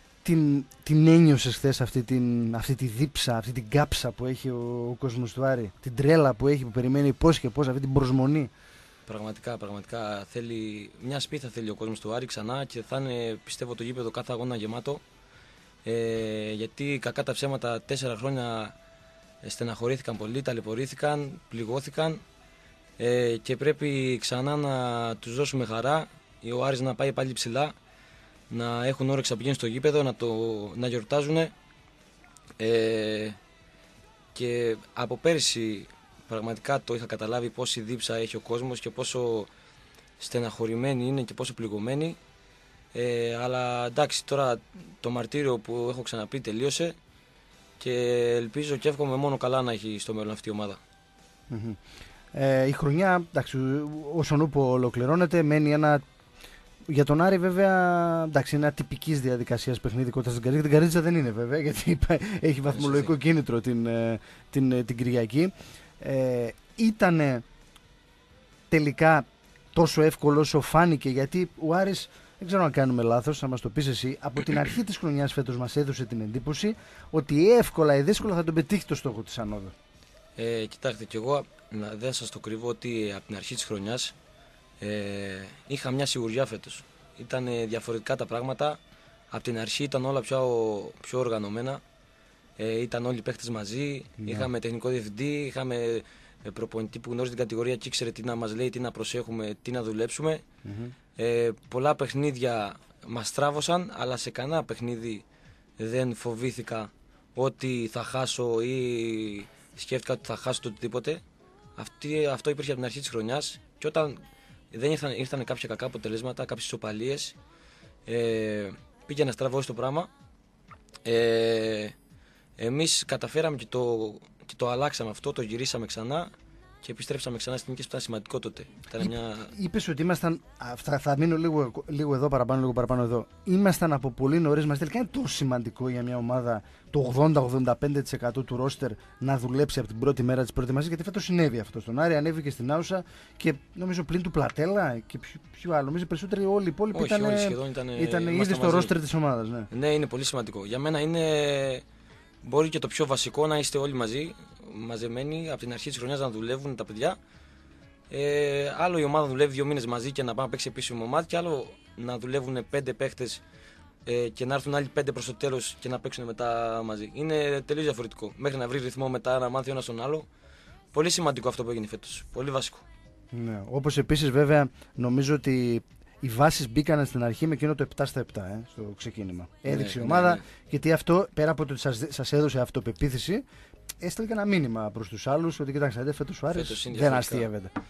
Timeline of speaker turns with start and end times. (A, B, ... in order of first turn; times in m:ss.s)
0:00.2-0:08.5 A
0:09.1-0:15.0 B
0:15.8-0:18.7 B
0:19.4-0:22.2 B
0:23.0-0:27.7 B
0:28.5-0:31.5 B
0:32.6-0:33.4 B
0:34.3-0:39.5 B
0:40.2-0:42.2 B
0:42.9-0:47.0 B
0:47.8-0:50.8 B
0:51.5-0:51.8 A
0:52.3-0:56.0 A
0:56.9-1:07.4 A
1:02.7-1:03.1 B
1:08.7-1:19.7 A
1:20.4-1:24.1 B
1:24.8-1:28.8 B
1:29.3-1:31.8 B
1:32.6-1:40.4 B
1:34.2-1:34.5 A
1:40.6-1:40.9 A
1:41.2-1:45.2 B
1:45.8-1:51.2 B
1:51.8-1:54.2 B
1:54.7-1:57.4 B
1:58.0-2:00.1 B
2:01.0-2:01.9 B
2:02.6-2:06.3 B
2:06.8-2:09.5 B
2:09.0-2:29.7 A
2:26.9-2:28.9 B
2:29.7-2:31.8 B
2:32.4-2:37.2 B
2:38.1-2:43.4 B
2:44.0-2:50.3 B
2:50.9-2:52.8 B
2:53.3-3:03.4 A
2:59.6-3:00.4 B
3:04.0-3:07.7 A
3:06.5-3:07.5 B